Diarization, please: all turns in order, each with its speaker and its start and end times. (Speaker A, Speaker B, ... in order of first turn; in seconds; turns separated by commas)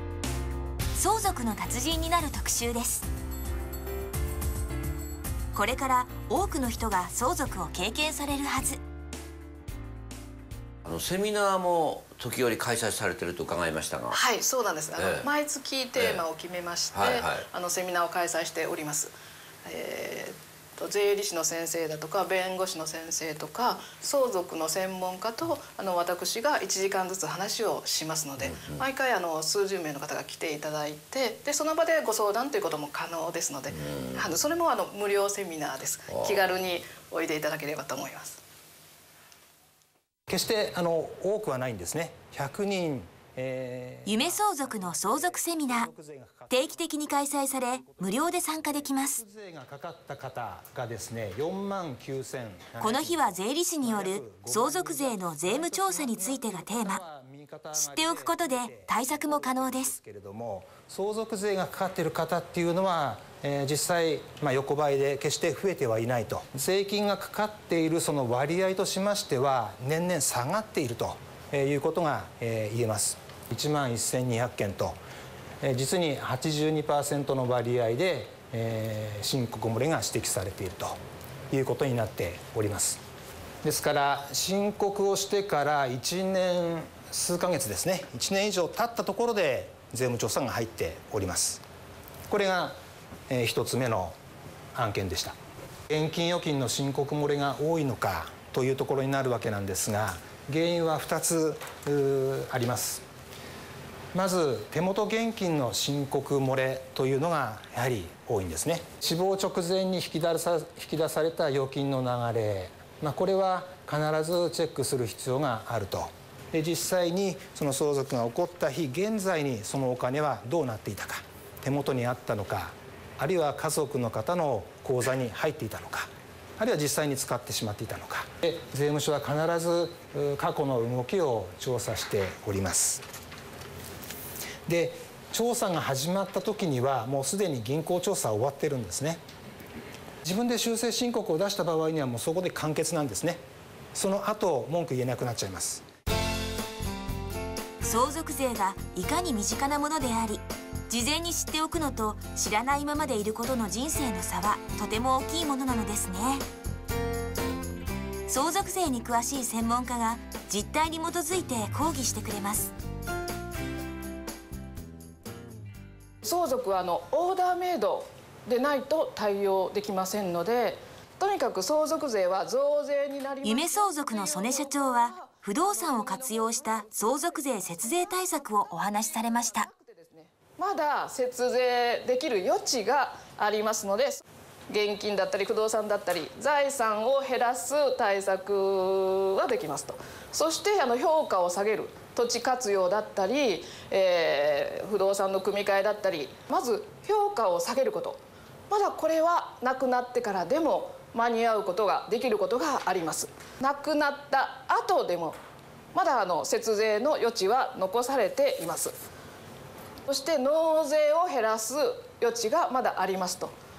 Speaker A: 0.9-3.1, Speaker A: 5.5-8.8, Speaker B: 10.8-14.2, Speaker C: 14.1-19.1, Speaker B: 15.0-15.3, Speaker B: 16.0-16.2, Speaker B: 16.9-17.5, Speaker C: 19.6-38.4, Speaker B: 28.5-28.8, Speaker B: 36.1-36.5, Speaker D: 40.3-75.0, Speaker A: 44.1-45.9, Speaker A: 46.5-49.2, Speaker A: 52.8-57.0, Speaker A: 57.7-59.9, Speaker D: 75.6-81.0, Speaker D: 81.5-83.0, Speaker D: 83.6-91.6, Speaker D: 92.3-92.8, Speaker D: 93.3-94.1, Speaker D: 94.8-95.3, Speaker D: 95.9-103.0, Speaker D: 104.1-133.0, Speaker D: 134.7-139.2, Speaker D: 140.2-143.4, Speaker D: 143.9-145.8, Speaker A: 147.8-156.4, Speaker A: 158.3-162.7, Speaker C: 166.2-205.4, Speaker A: 173.4-179.7, Speaker C: 205.9-208.9, Speaker C: 210.1-213.5